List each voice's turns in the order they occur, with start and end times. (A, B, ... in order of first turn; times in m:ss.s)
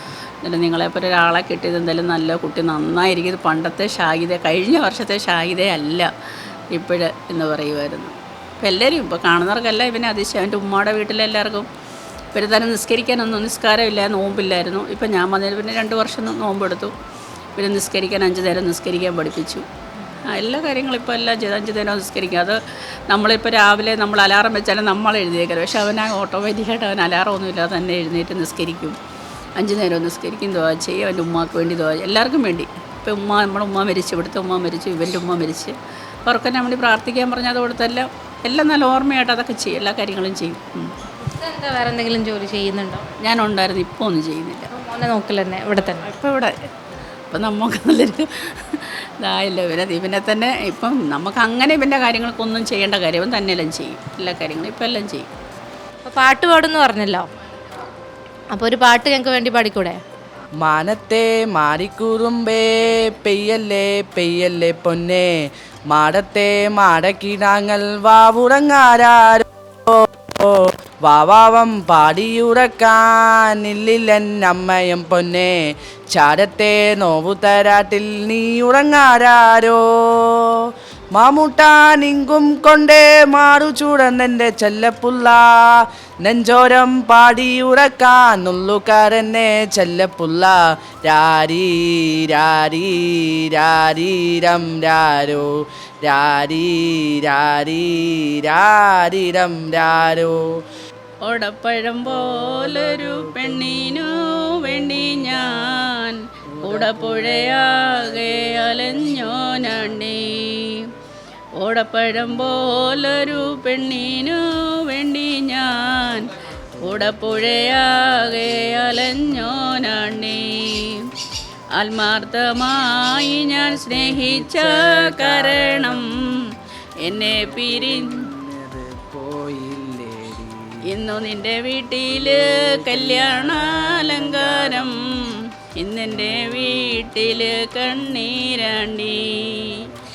0:00.4-0:11.7 A
0:12.3-0:16.9 A
0:17.6-0:19.6 A
0:20.3-0:29.0 A
0:29.6-0:40.9 A
0:41.2-0:43.0 B
0:43.2-0:44.7 A
0:44.7-0:46.0 B
0:46.0-0:46.7 A
0:47.3-0:55.3 A
0:56.0-0:57.3 B
0:58.5-1:00.0 B
1:00.6-1:40.6 C
1:41.2-1:50.9 A
1:51.6-2:01.1 A
2:01.8-2:06.4 A
2:03.9-2:06.1 C
2:07.0-2:08.3 A
2:07.3-2:10.8 C
2:10.9-2:19.9 A
2:12.4-2:15.0 C